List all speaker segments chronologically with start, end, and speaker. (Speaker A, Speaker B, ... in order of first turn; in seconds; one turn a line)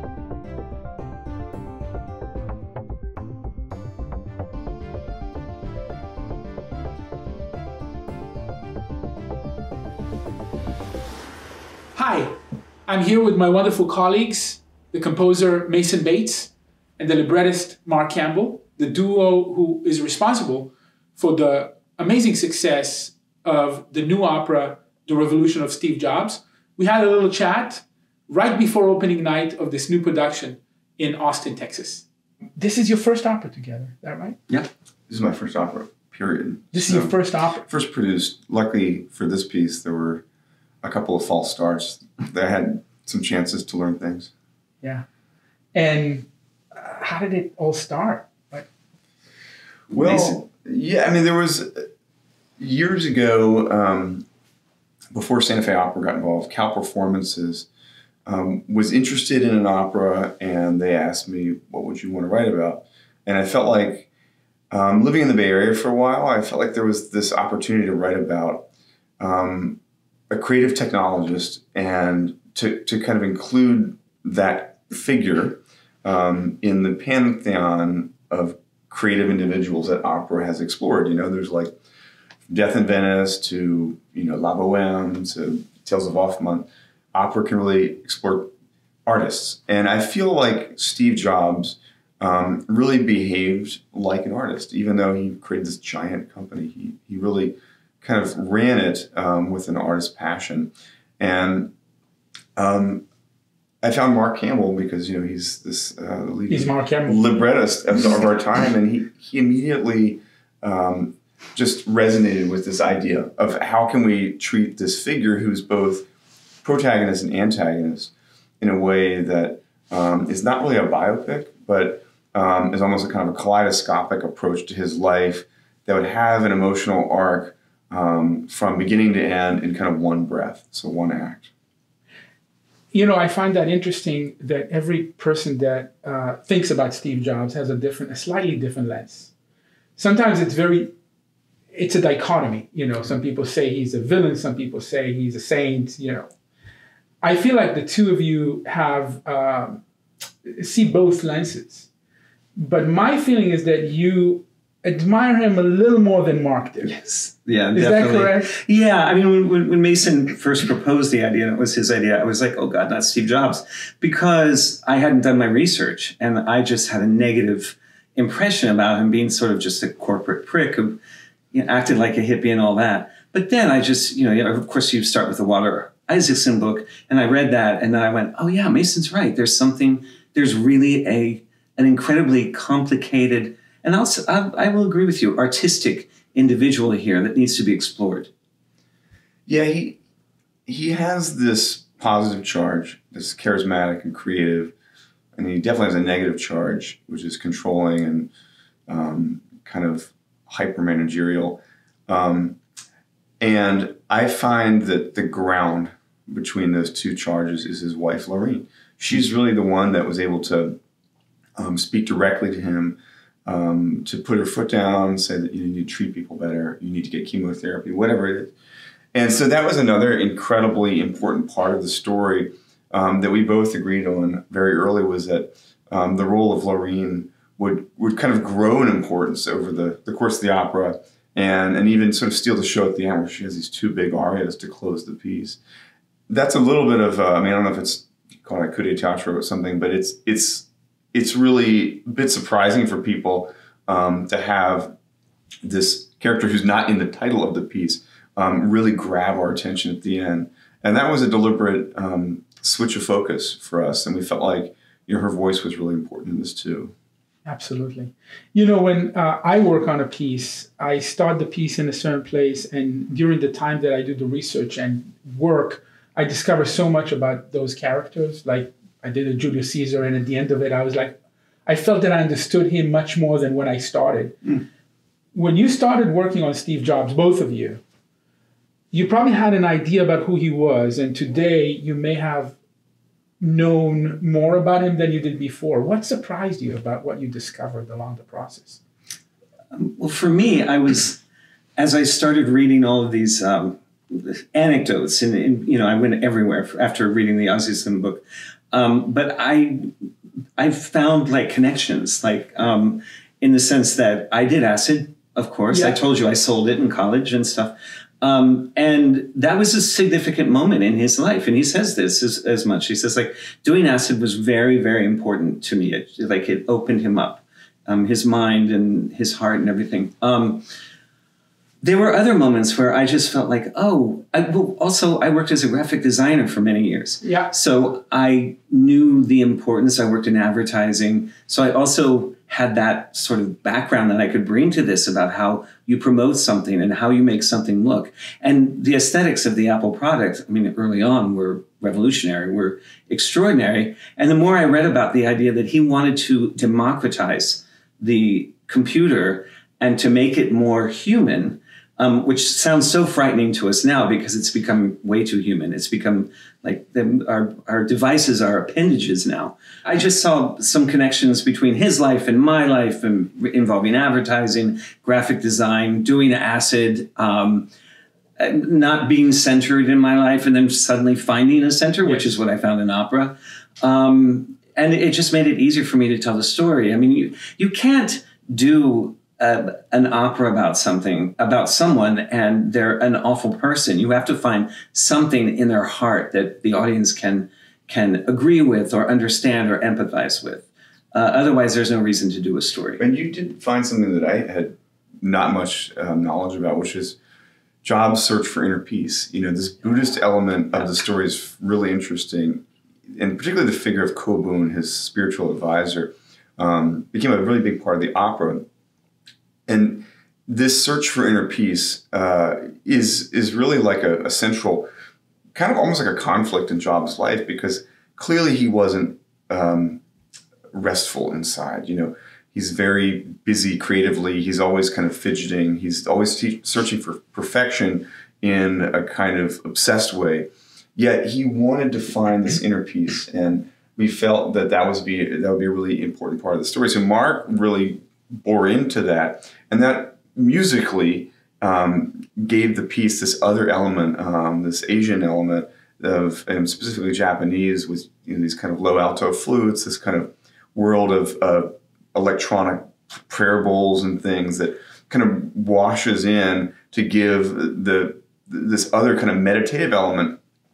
Speaker A: 11.9-12.3
Speaker A: 12.9-32.0
Speaker A: 32.6-34.4
Speaker B: 35.1-40.2
Speaker A: 36.7-37.7
Speaker B: 40.8-44.3
Speaker A: 45.7-48.7
Speaker B: 49.9-51.9
Speaker C: 49.9-50.4
Speaker B: 52.6-54.2
Speaker B: 55.1-57.7
Speaker B: 58.3-64.1
Speaker B: 64.7-68.7
Speaker B: 69.2-69.8
Speaker B: 70.3-81.8
Speaker B: 82.5-88.5
Speaker B: 89.1-101.7
Speaker B: 102.6-103.0
Speaker B: 103.8-116.1
Speaker A: 106.5-107.2
Speaker B: 116.6-131.5
Speaker A: 132.9-139.3
Speaker A: 140.0-140.9
Speaker A: 141.7-146.3
Speaker A: 147.2-149.8
Speaker A: 150.4-151.9
Speaker A: 152.6-156.9
Speaker C: 156.8-171.0
Speaker A: 157.7-158.5
Speaker C: 171.5-188.3
Speaker B: 189.5-190.0
Speaker B: 190.7-194.7
Speaker B: 195.4-198.3
Speaker B: 198.9-202.6
Speaker B: 203.4-210.8
Speaker B: 211.6-218.5
Speaker B: 219.1-235.6
Speaker B: 236.3-244.9
Speaker B: 245.6-256.9
Speaker A: 257.5-274.6
Speaker A: 275.3-277.8
Speaker A: 278.9-282.6
Speaker A: 283.4-288.8
Speaker C: 289.7-291.2
Speaker C: 291.8-299.9
Speaker C: 300.6-320.6
Speaker A: 305.7-306.0
Speaker C: 321.8-367.7
Speaker A: 327.2-327.5
Speaker C: 368.4-393.0
Speaker A: 372.0-372.4
Speaker B: 393.0-397.2
Speaker B: 397.8-408.6
Speaker B: 409.7-414.9
Speaker B: 415.6-420.0
Speaker B: 420.7-460.4